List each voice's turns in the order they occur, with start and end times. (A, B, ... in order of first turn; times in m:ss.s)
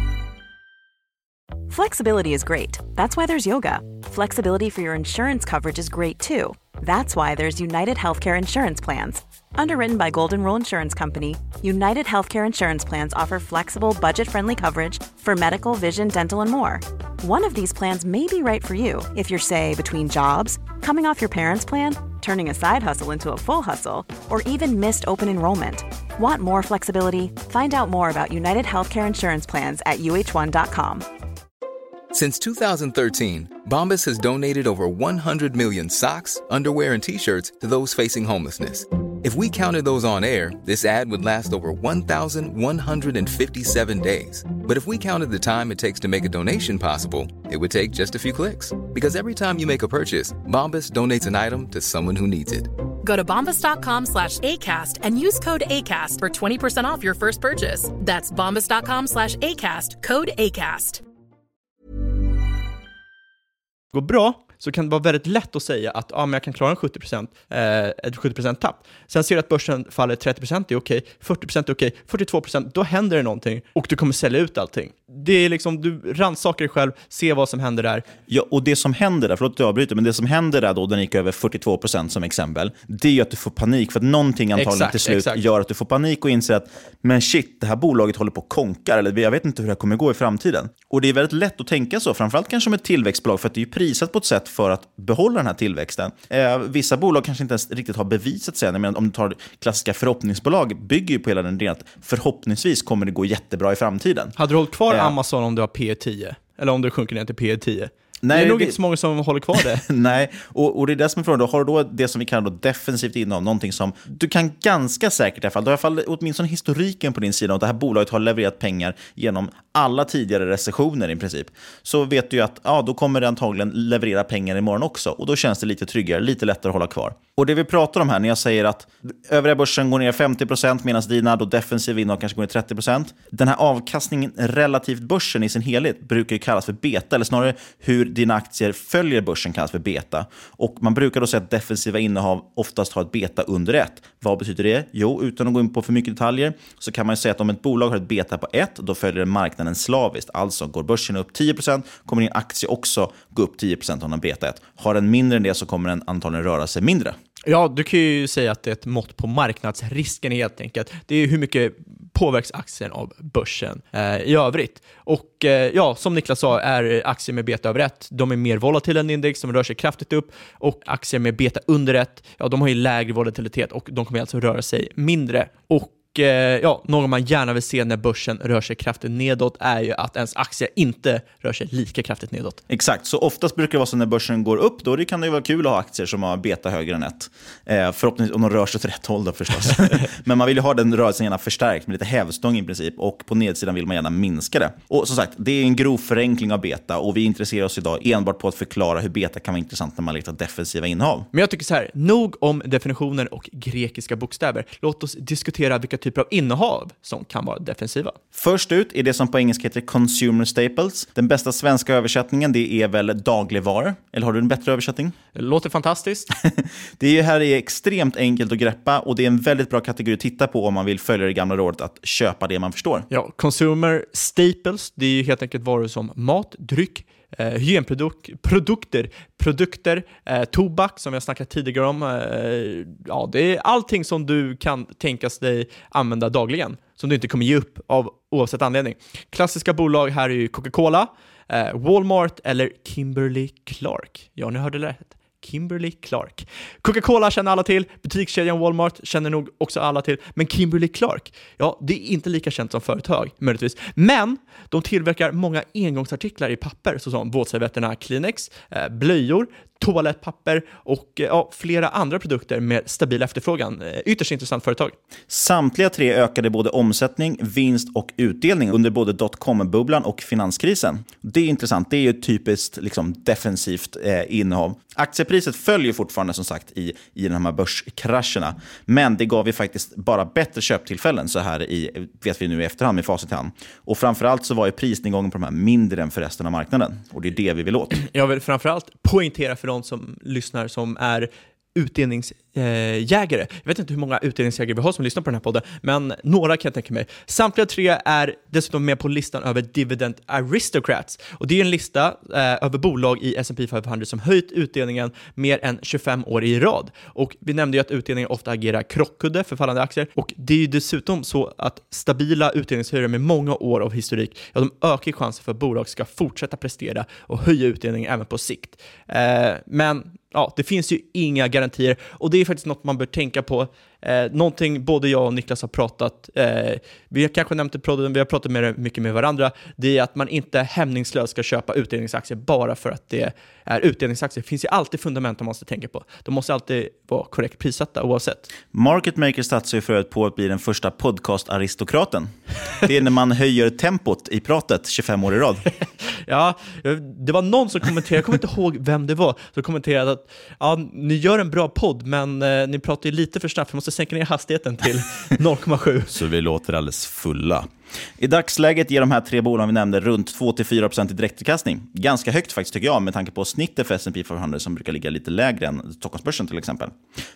0:01.7-0:31.0 A
0:32.1-0:52.7 B
0:53.0-1:01.0 C
1:03.9-1:18.0 D
1:18.3-1:44.3 E
1:24.6-1:25.4 D
1:44.4-1:49.8 D
1:44.9-1:45.2 E
1:48.2-1:48.8 E
1:49.5-2:37.2 E
2:37.4-3:02.6 D
3:02.7-3:21.3 E
3:21.3-3:28.2 D
3:28.3-3:35.2 E
3:35.3-3:36.3 D
3:36.4-3:43.1 E
3:43.1-4:24.9 D
4:25.3-4:47.9 E
4:47.9-5:38.5 D
5:38.7-5:45.6 E
5:46.0-5:56.1 D
5:56.1-6:07.0 E